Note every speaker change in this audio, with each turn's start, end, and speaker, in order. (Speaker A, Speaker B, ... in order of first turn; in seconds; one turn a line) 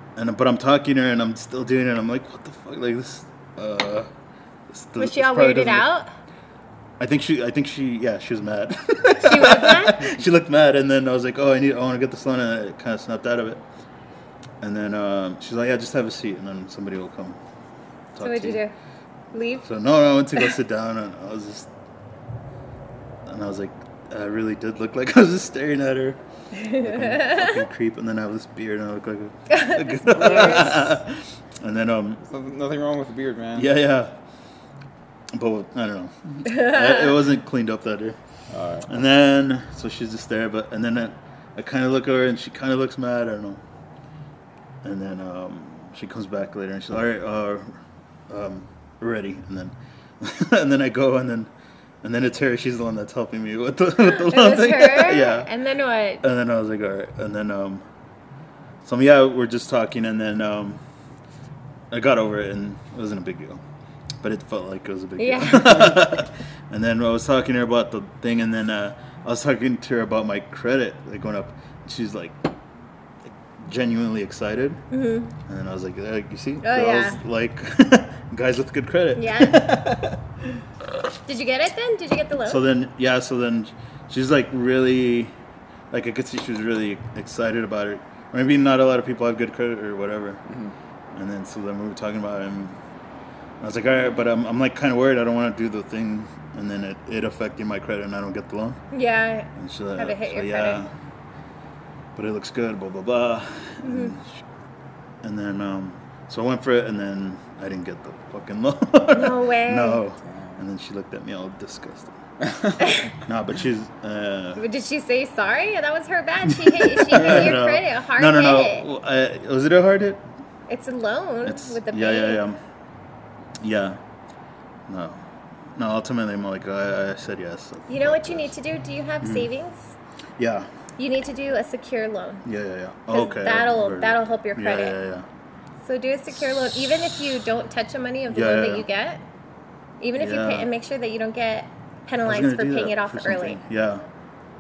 Speaker A: 0.2-4.1
Speaker A: 4.7-5.9
Speaker B: 5.0-6.1
Speaker A: 7.0-13.6
Speaker B: 9.2-10.1
Speaker A: 14.6-17.4
Speaker A: 18.1-18.6
Speaker B: 18.2-18.7
Speaker B: 19.3-19.7
Speaker A: 19.6-21.7
Speaker A: 23.3-26.2
Speaker B: 26.5-27.6
Speaker A: 26.8-32.2
Speaker B: 29.5-30.9
Speaker C: 30.2-30.6
Speaker C: 32.2-33.7
Speaker A: 33.6-34.1
Speaker A: 35.3-38.2
Speaker B: 36.5-37.1
Speaker C: 38.5-38.9
Speaker A: 38.9-43.6
Speaker A: 44.8-47.8
Speaker A: 48.3-51.5
Speaker A: 52.0-55.5
Speaker B: 54.0-56.2
Speaker A: 56.2-57.8
Speaker A: 58.8-60.8
Speaker A: 61.9-63.6
Speaker A: 64.2-72.5
Speaker B: 65.2-66.1
Speaker A: 73.6-74.8
Speaker B: 74.9-75.3
Speaker A: 75.5-80.2
Speaker B: 76.6-77.2
Speaker B: 79.2-79.7
Speaker B: 81.3-82.6
Speaker A: 82.5-85.3
Speaker A: 85.9-90.4
Speaker C: 90.5-90.7
Speaker A: 91.1-92.8
Speaker A: 93.6-98.8
Speaker B: 98.9-100.8
Speaker A: 99.6-100.9
Speaker A: 102.2-104.4
Speaker B: 103.8-104.2
Speaker A: 105.2-112.2
Speaker B: 109.1-110.0
Speaker C: 110.3-110.6
Speaker C: 112.4-112.8
Speaker B: 112.8-113.1
Speaker A: 113.2-114.6
Speaker B: 114.6-118.9
Speaker A: 116.5-120.2
Speaker C: 117.2-117.5
Speaker B: 120.7-122.4
Speaker A: 121.4-122.6
Speaker A: 123.6-124.0
Speaker A: 124.9-125.2
Speaker A: 125.8-128.5
Speaker B: 127.9-129.9
Speaker A: 129.2-129.5
Speaker A: 130.4-130.7
Speaker B: 131.0-132.4
Speaker A: 132.4-135.3
Speaker B: 133.1-135.0
Speaker B: 135.8-139.2
Speaker A: 138.3-138.9
Speaker B: 140.0-143.6
Speaker A: 140.2-140.7
Speaker A: 142.2-144.0